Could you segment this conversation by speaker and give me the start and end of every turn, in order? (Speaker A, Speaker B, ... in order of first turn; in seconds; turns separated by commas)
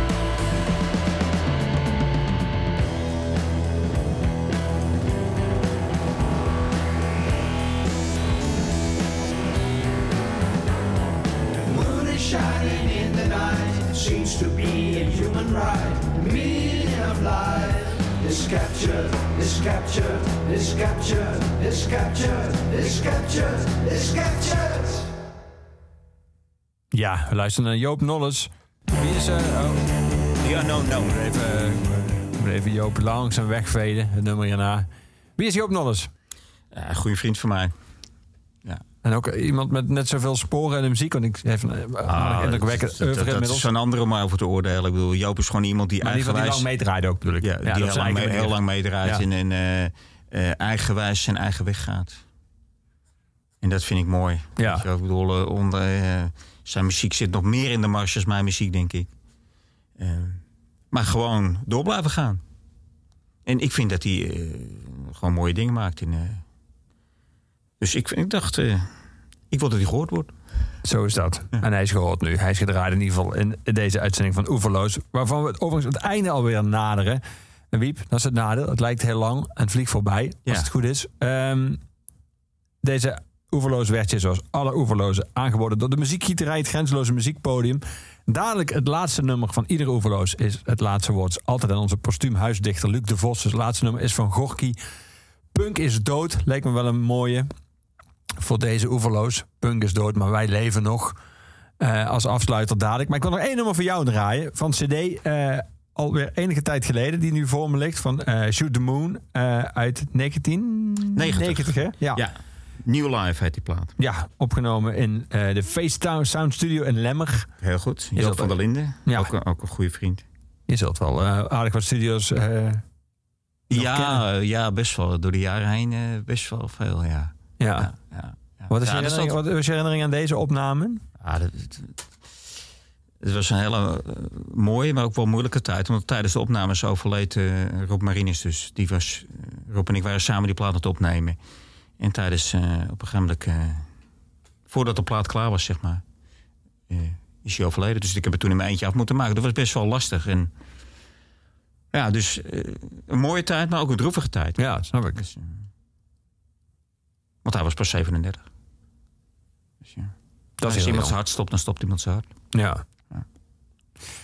Speaker A: 11.6-25.1, Speaker B: 26.9-29.9, Speaker C: 30.4-31.1, Speaker B: 30.8-36.1, Speaker C: 36.7-37.7, Speaker B: 39.0-43.7, Speaker C: 42.0-46.7, Speaker B: 46.0-49.2, Speaker C: 47.4-52.2, Speaker C: 53.6-59.1, Speaker B: 54.6-54.8, Speaker C: 60.0-62.4, Speaker C: 63.5-66.4, Speaker C: 67.8-68.9, Speaker C: 69.5-70.3, Speaker B: 70.8-81.8, Speaker B: 82.8-94.8, Speaker B: 95.5-97.5, Speaker B: 98.4-101.2, Speaker B: 101.8-112.2, Speaker C: 111.1-113.9, Speaker B: 114.0-117.5, Speaker C: 117.6-120.2, Speaker B: 118.2-119.3, Speaker B: 120.7-122.8, Speaker C: 123.7-129.4, Speaker B: 123.7-124.2, Speaker B: 127.6-127.9, Speaker B: 128.7-131.0, Speaker C: 131.2-132.0, Speaker C: 133.2-141.4, Speaker C: 142.0-143.9, Speaker C: 144.7-146.0, Speaker C: 146.9-150.5, Speaker C: 151.9-155.5, Speaker B: 154.6-155.2, Speaker C: 157.4-158.5, Speaker C: 159.8-162.3, Speaker B: 160.6-161.1, Speaker B: 162.5-162.8